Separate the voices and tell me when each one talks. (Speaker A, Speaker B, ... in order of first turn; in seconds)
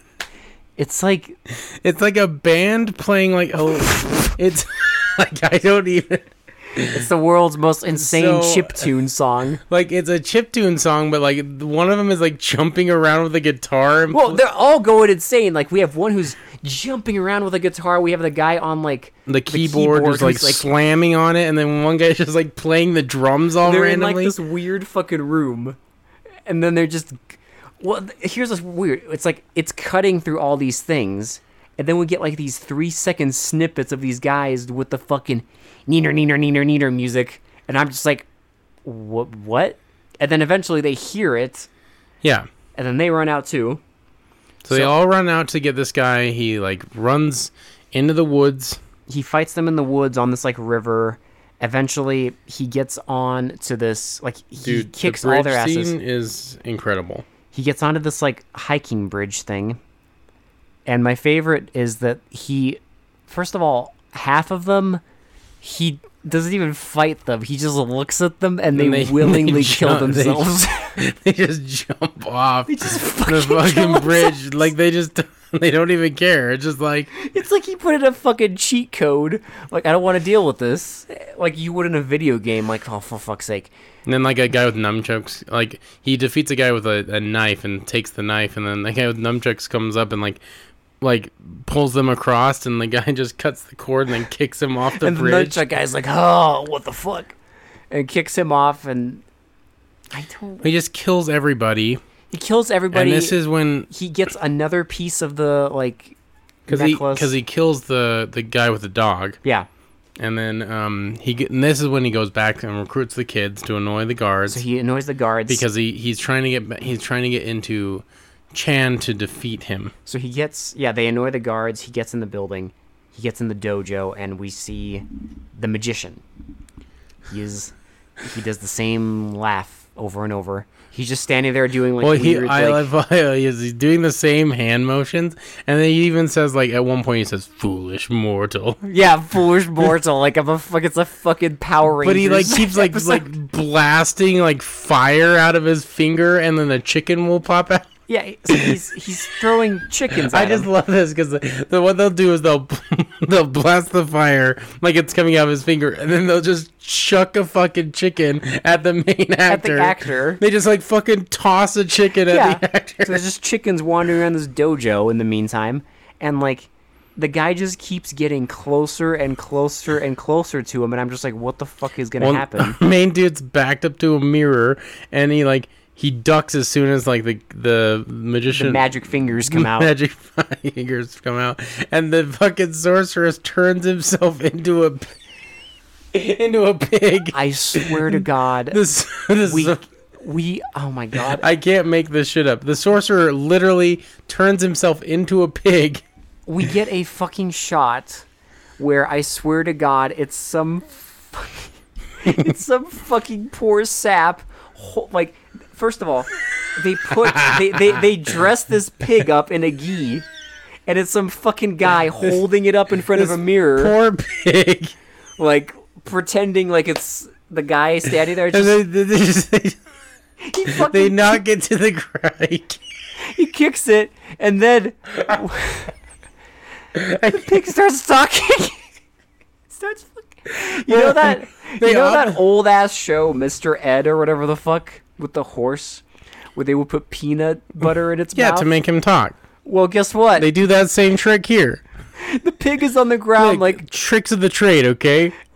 Speaker A: 0.8-1.4, 3.7-4.3, 6.8-9.6, 14.1-20.6, 23.6-25.8, 26.5-38.3, 38.9-41.7, 42.8-43.8, 49.1-56.0, 57.5-59.8, 60.9-65.0, 65.6-71.0, 72.7-74.7, 77.1-83.7, 95.0-97.3, 97.9-99.2, 100.1-100.7, 102.3-103.4, 103.9-106.2, 106.7-107.3, 114.5-115.7, 120.1-126.2, 127.3-132.9, 138.8-143.3, 148.1-150.7, 159.5-160.4, 162.3-172.8, 178.5-179.9, 187.3-188.8, 189.4-191.5, 196.5-198.2, 198.8-210.3, 210.9-213.9, 215.4-218.8, 220.4-221.4, 223.2-225.9, 227.2-228.8, 229.7-236.0, 236.6-238.7, 239.7-240.5, 242.2-243.8
Speaker B: 1.5-7.0, 7.9-8.9, 9.6-14.4, 19.3-24.4, 42.2-42.5, 44.6-48.8, 54.6-57.3, 68.7-77.1, 84.1-90.4, 91.0-95.7, 100.6-102.0, 102.9-103.9, 106.7-109.4, 110.2-114.6, 115.5-119.9, 132.0-138.8, 142.0-147.9, 148.5-148.8, 150.1-163.2, 172.2-178.8, 179.5-185.1, 186.1-189.8, 191.1-196.0, 202.3-202.5, 207.2-208.0, 213.1-214.9, 218.5-219.8, 220.7-222.8, 226.9-227.6, 230.5-232.4, 238.3-239.4, 240.4-241.8, 243.4-245.3